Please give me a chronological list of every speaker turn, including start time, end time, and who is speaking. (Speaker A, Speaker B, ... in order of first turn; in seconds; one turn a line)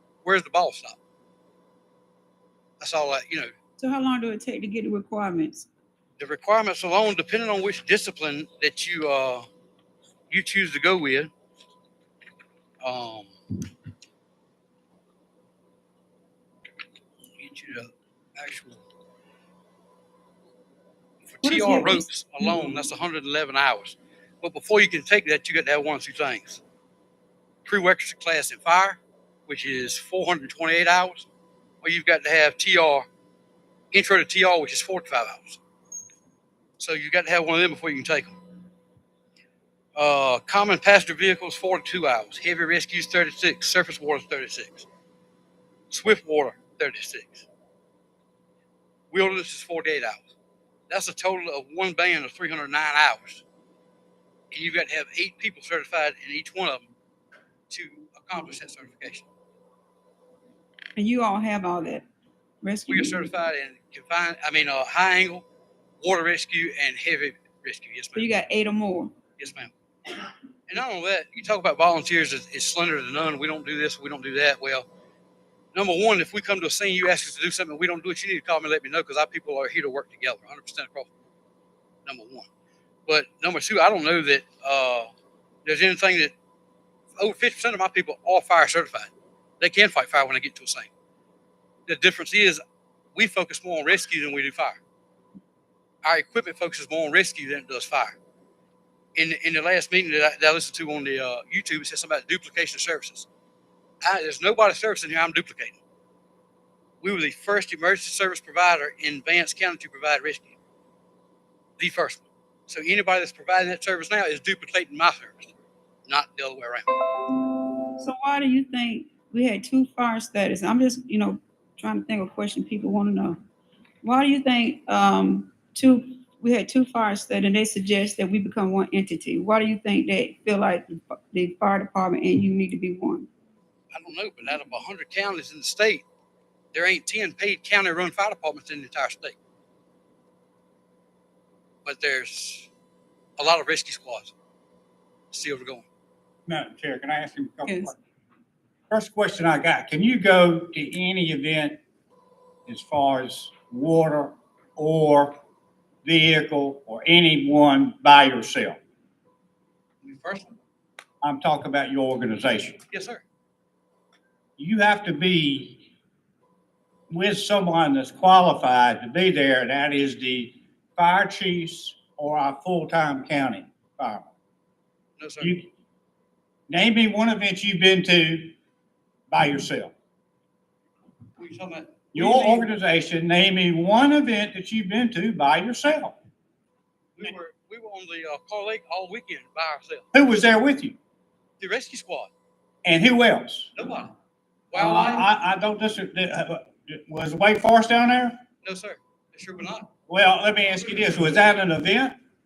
Speaker A: 0.2-1.0
Speaker A: 2.8-3.5
Speaker B: 3.8-5.7
Speaker A: 6.2-9.5
Speaker A: 10.3-11.3
Speaker A: 12.8-13.6
Speaker A: 17.4-18.8
Speaker A: 21.2-26.6
Speaker B: 21.4-22.6
Speaker A: 27.6-31.3
Speaker A: 31.8-33.0
Speaker A: 33.9-35.6
Speaker A: 36.8-38.3
Speaker A: 40.0-44.9
Speaker A: 45.9-47.5
Speaker A: 49.1-50.3
Speaker A: 50.9-53.4
Speaker A: 54.5-56.9
Speaker A: 57.7-59.3
Speaker B: 61.0-62.0
Speaker B: 62.6-63.3
Speaker A: 62.9-65.4
Speaker A: 66.0-68.3
Speaker B: 68.1-69.1
Speaker A: 69.4-69.7
Speaker A: 70.7-74.9
Speaker A: 75.7-81.1
Speaker A: 82.0-82.5
Speaker A: 83.1-85.1
Speaker A: 85.6-86.3
Speaker A: 87.2-90.9
Speaker A: 91.9-92.6
Speaker A: 93.1-94.8
Speaker A: 96.0-98.2
Speaker A: 99.1-103.3
Speaker A: 104.0-105.8
Speaker A: 107.0-110.6
Speaker A: 111.8-115.5
Speaker A: 116.0-116.9
Speaker B: 118.0-123.4
Speaker B: 124.0-133.3
Speaker A: 133.9-136.1
Speaker A: 136.7-139.4
Speaker A: 141.8-142.7
Speaker A: 143.4-144.3
Speaker A: 145.3-145.9
Speaker C: 146.5-147.9
Speaker B: 147.6-147.9
Speaker C: 148.9-151.8
Speaker C: 152.7-155.4
Speaker C: 156.0-158.8
Speaker A: 160.0-160.6
Speaker C: 161.2-162.8
Speaker A: 162.9-163.2
Speaker C: 164.6-165.8
Speaker C: 167.1-174.3
Speaker A: 175.2-175.6
Speaker C: 175.4-175.7
Speaker C: 176.7-178.5
Speaker C: 179.3-179.9
Speaker A: 181.4-182.7
Speaker C: 182.1-186.2
Speaker A: 187.2-190.1
Speaker C: 190.1-191.0
Speaker A: 191.6-192.3
Speaker C: 192.8-193.7
Speaker A: 193.7-194.2
Speaker A: 194.7-195.3
Speaker C: 194.7-198.3
Speaker A: 198.6-199.9
Speaker C: 200.1-202.2